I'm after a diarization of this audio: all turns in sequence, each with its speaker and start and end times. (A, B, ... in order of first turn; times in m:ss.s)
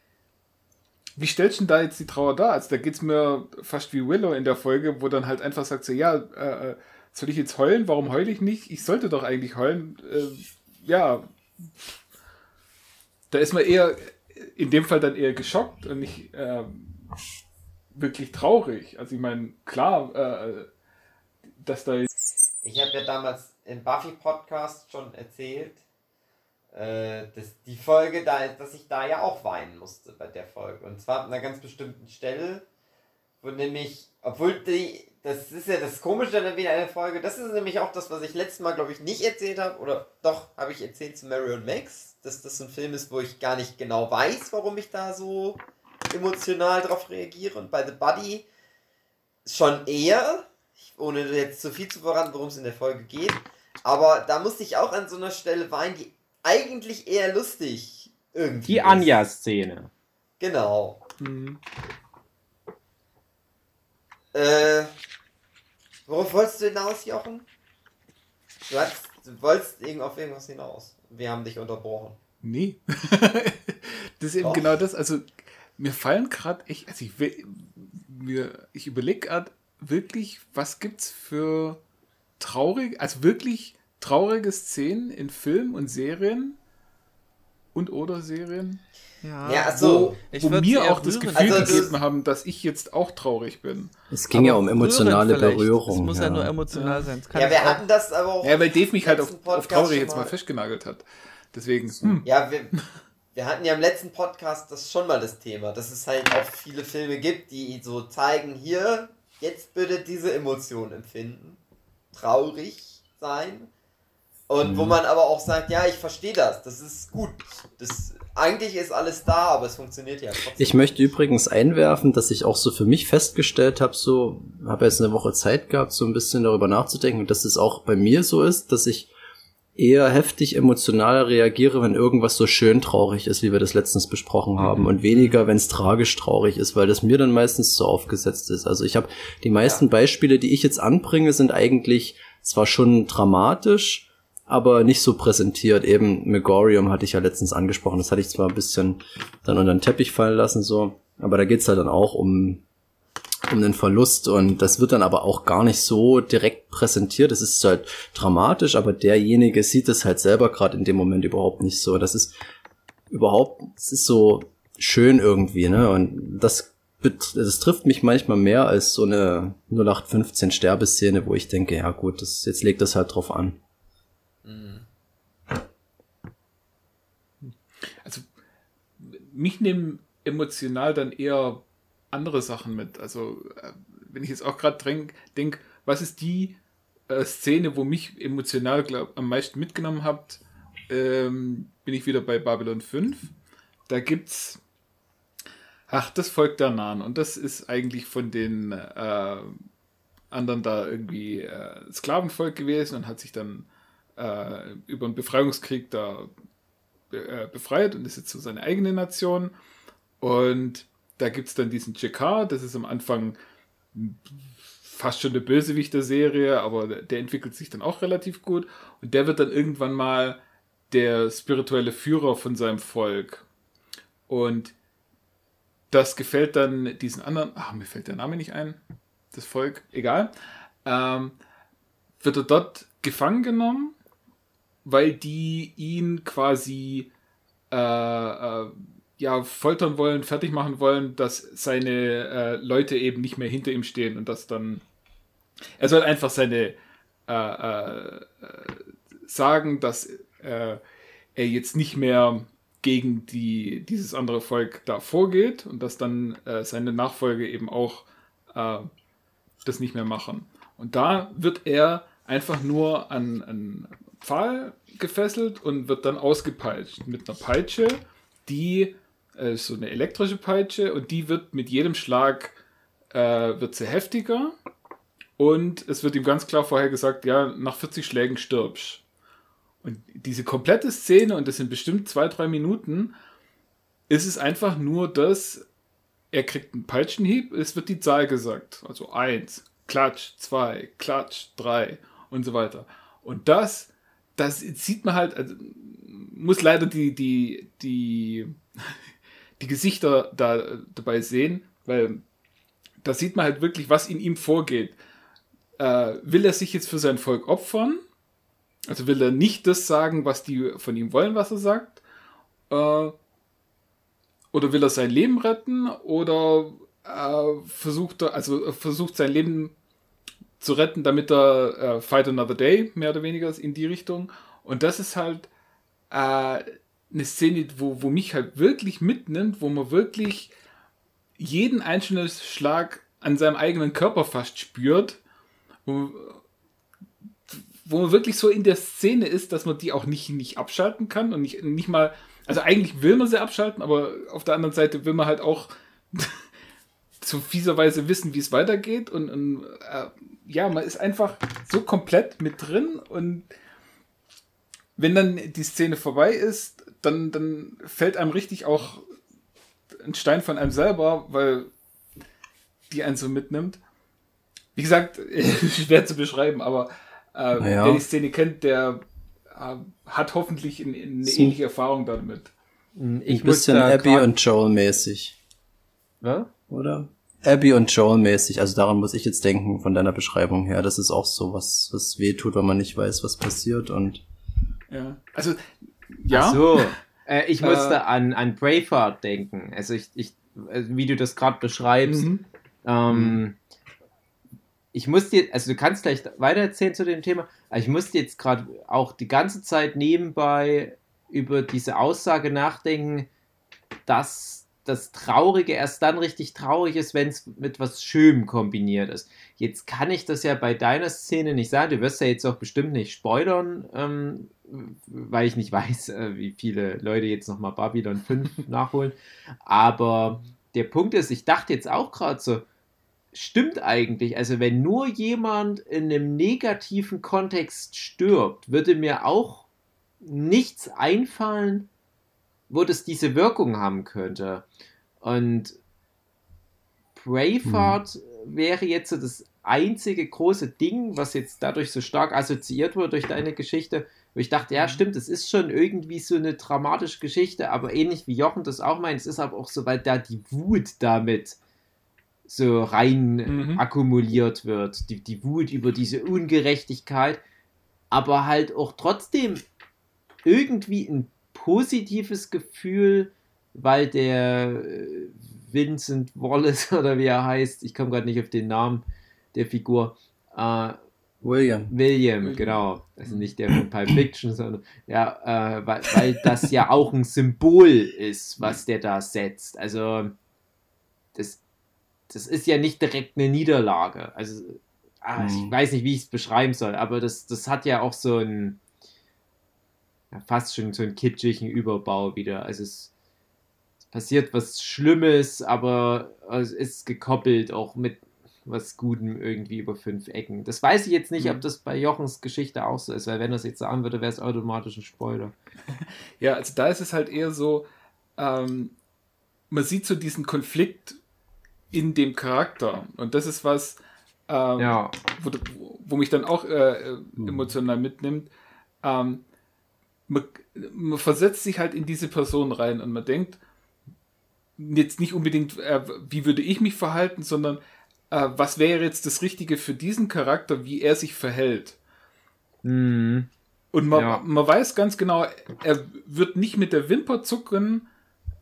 0:01.2-0:12.0 A
0:13.3-0:17.0 A
0:17.9-0:20.7 A
0:21.6-0:22.1 A
0:22.6-0:25.8 B
0:26.7-0:32.6 B
0:33.4-0:48.5 B
0:49.4-0:59.1 B
0:58.7-0:59.9 C
1:00.4-1:01.0 B
1:01.2-1:01.6 A
1:04.3-1:04.9 B
1:06.1-1:07.4 B
1:08.7-1:12.2 B
1:12.4-1:21.8 A
1:14.4-1:14.7 B
1:22.4-1:26.6 A
1:27.7-1:28.8 A
1:29.2-1:31.9 D
1:29.4-1:30.2 B
1:29.8-1:33.9 A
1:31.4-1:32.0 B
1:34.1-1:36.5 E
1:34.3-1:37.8 D
1:36.7-1:37.1 A
1:37.3-1:40.3 B
1:38.4-1:42.2 A
1:42.2-1:42.7 B
1:43.3-1:51.6 B
1:52.1-1:53.7 B
1:54.5-2:01.1 B
1:54.6-1:55.0 E
2:00.6-2:09.1 E
2:09.8-2:32.6 E
2:14.6-2:14.9 A
2:33.5-2:42.3 E
2:43.1-2:53.6 E
2:54.4-2:54.8 B
2:57.4-2:58.2 A
2:59.0-3:06.6 A
3:07.1-3:13.3 A
3:13.9-3:14.6 A
3:15.9-3:19.6 A
3:20.3-3:26.3 A
3:27.1-3:29.5 A
3:30.2-3:33.4 A
3:33.9-3:40.4 A
3:40.9-3:43.5 A
3:44.3-3:44.7 A
3:45.9-3:48.8 A
3:49.3-3:50.3 A
3:50.8-3:51.4 A
3:52.2-3:54.0 A
3:54.8-3:57.1 A
3:57.7-4:04.8 A
4:05.8-4:06.8 A
4:07.3-4:10.8 A
4:11.4-4:18.9 A
4:19.6-4:32.6 A
4:33.1-4:34.5 A
4:35.4-4:39.0 A
4:39.8-4:43.1 A
4:44.1-4:45.6 A
4:46.3-4:58.6 A
4:59.6-5:02.2 A
5:03.0-5:05.0 A
5:05.8-5:08.0 A
5:08.9-5:12.0 A
5:12.7-5:13.2 A
5:14.5-5:19.8 A
5:20.6-5:25.5 A
5:26.1-5:30.5 A
5:31.4-5:35.2 A
5:35.9-5:36.4 A
5:37.5-5:46.4 A
5:47.2-5:53.5 A
5:55.0-5:59.0 A
6:00.0-6:01.7 A
6:02.9-6:03.8 A
6:04.8-6:12.5 A
6:07.6-6:08.0 E
6:11.2-6:11.6 E
6:13.0-6:14.3 C
6:13.3-6:15.4 E
6:16.2-6:16.5 C
6:16.7-6:24.2 E
6:24.9-6:25.6 A
6:26.2-6:27.0 A
6:26.3-6:32.3 C
6:27.6-6:28.0 A
6:32.0-6:32.4 A
6:32.8-6:33.6 C
6:33.1-6:33.4 A
6:34.9-6:43.3 C
6:44.1-7:02.7 C
7:03.3-7:09.7 C
7:10.2-7:11.9 C
7:12.7-7:14.7 C
7:15.2-7:15.8 C
7:17.2-7:31.6 C
7:17.6-7:18.0 E
7:24.7-7:25.0 A
7:32.5-7:37.4 C
7:33.5-7:33.8 A
7:38.1-7:39.6 C
7:40.5-7:51.0 C
7:51.4-7:51.9 E
7:51.9-8:00.4 C
7:52.4-7:52.8 A
8:01.4-8:01.6 C
8:02.3-8:08.8 C
8:05.4-8:05.8 E
8:10.3-8:13.1 C
8:14.1-8:25.5 C
8:21.4-8:21.6 A
8:26.4-8:27.8 A
8:28.4-8:29.0 A
8:29.7-8:31.2 A
8:31.9-8:38.5 A
8:34.8-8:35.1 C
8:37.4-8:37.7 E
8:39.0-8:39.4 A
8:40.3-8:43.6 A
8:44.8-8:47.8 A
8:48.3-8:52.0 A
8:52.8-8:53.5 C
8:53.9-8:58.1 A
8:54.1-8:54.4 C